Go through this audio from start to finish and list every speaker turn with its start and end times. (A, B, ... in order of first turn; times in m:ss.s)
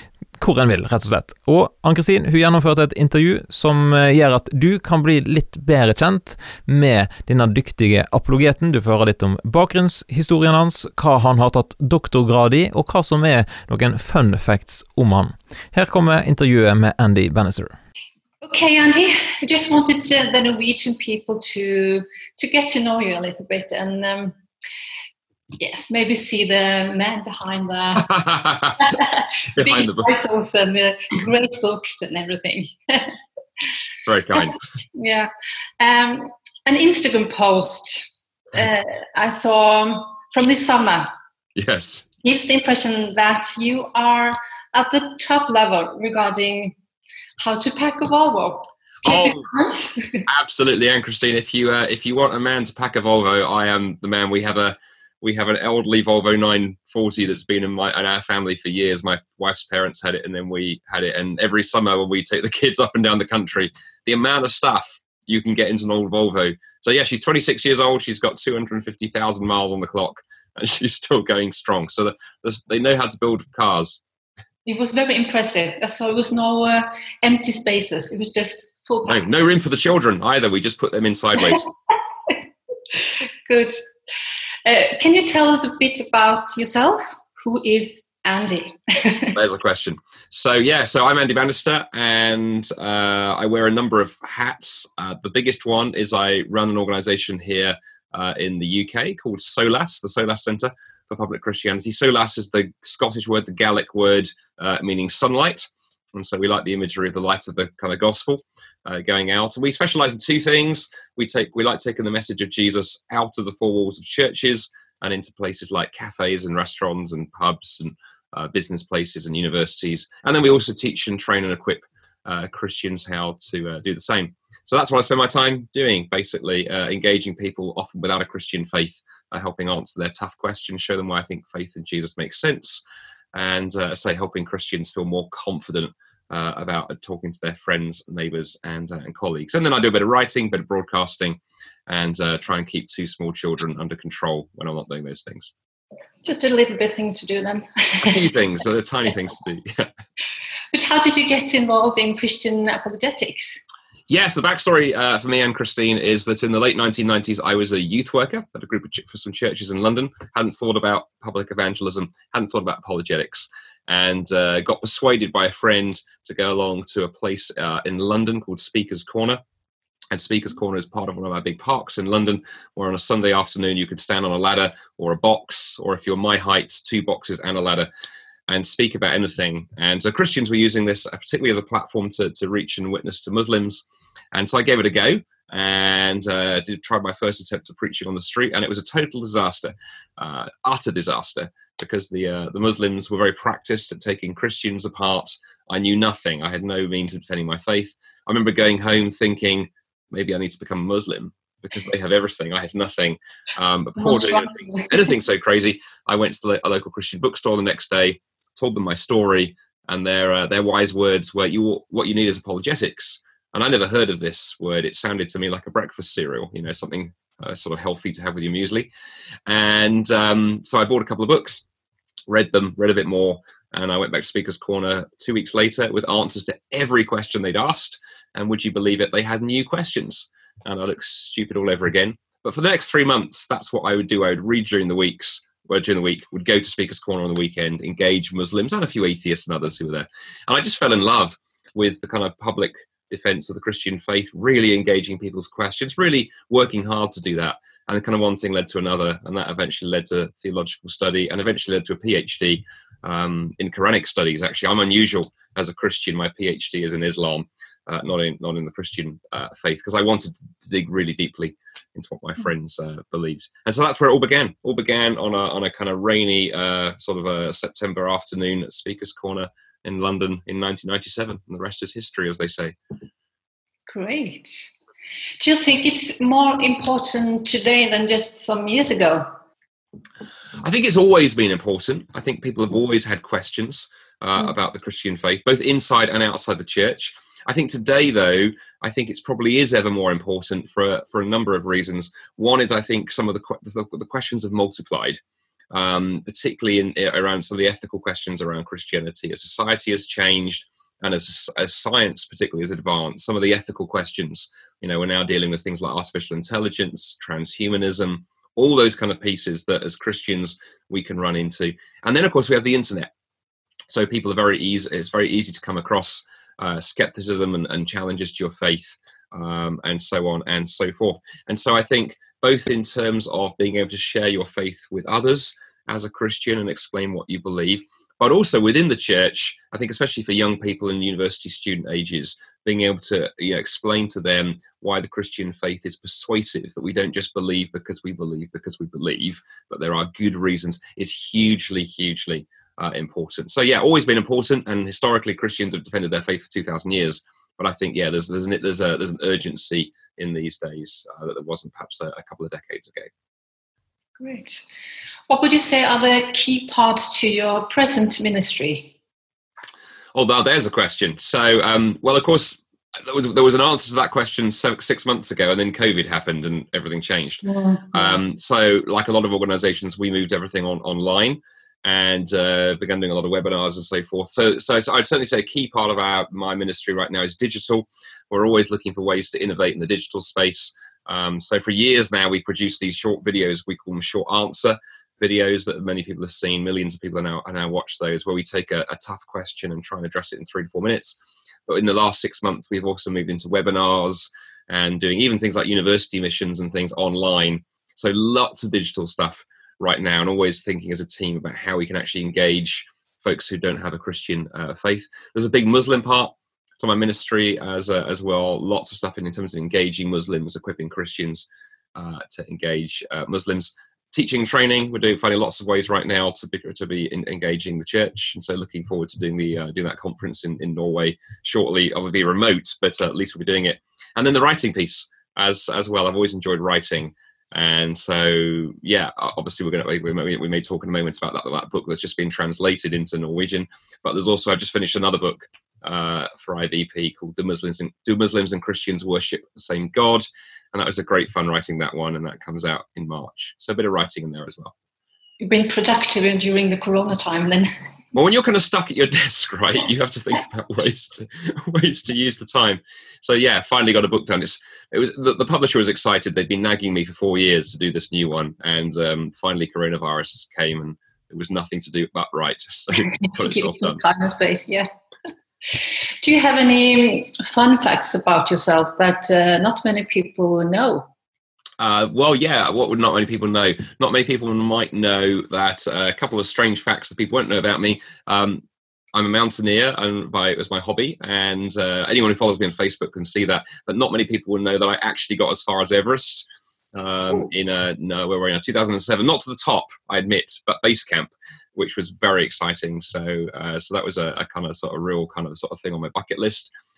0:00.4-0:17.8 A
0:18.4-0:24.4 B
0:25.6-0:28.2 B
0:28.1-0:28.8 C
0:28.8-0:33.1 B
0:29.6-0:30.1 C
0:34.1-0:34.6 C
0:34.4-0:35.3 B
0:35.8-0:41.1 B
0:41.6-0:42.1 C
0:42.2-0:46.8 B
0:47.4-0:50.2 B
0:49.0-0:49.5 C
0:50.3-1:14.0 C
1:14.7-1:19.3 B
1:19.1-1:21.7 C
1:23.5-1:23.7 B
1:24.6-1:29.4 B
1:29.3-2:12.8 C
2:13.3-2:25.5 C
2:26.2-2:28.3 B
2:28.0-2:29.9 C
2:30.7-2:33.6 B
2:34.1-2:49.4 C
2:50.1-2:57.9 C
2:58.5-3:38.9 C
3:24.0-3:25.0 B
3:39.5-3:41.6 C
3:42.3-4:32.8 C
4:33.9-4:34.6 B
4:35.4-4:39.3 B
4:40.6-4:55.2 C
4:55.7-5:13.1 C
5:13.9-5:53.1 C
5:54.2-5:54.6 B
5:55.3-5:58.9 B
6:00.1-7:24.7 C
6:07.4-6:08.2 B
7:25.4-7:27.7 B
7:28.1-7:44.0 C
7:43.1-7:44.9 B
7:46.2-7:51.1 B
7:51.8-7:58.6 C
7:59.2-8:16.7 C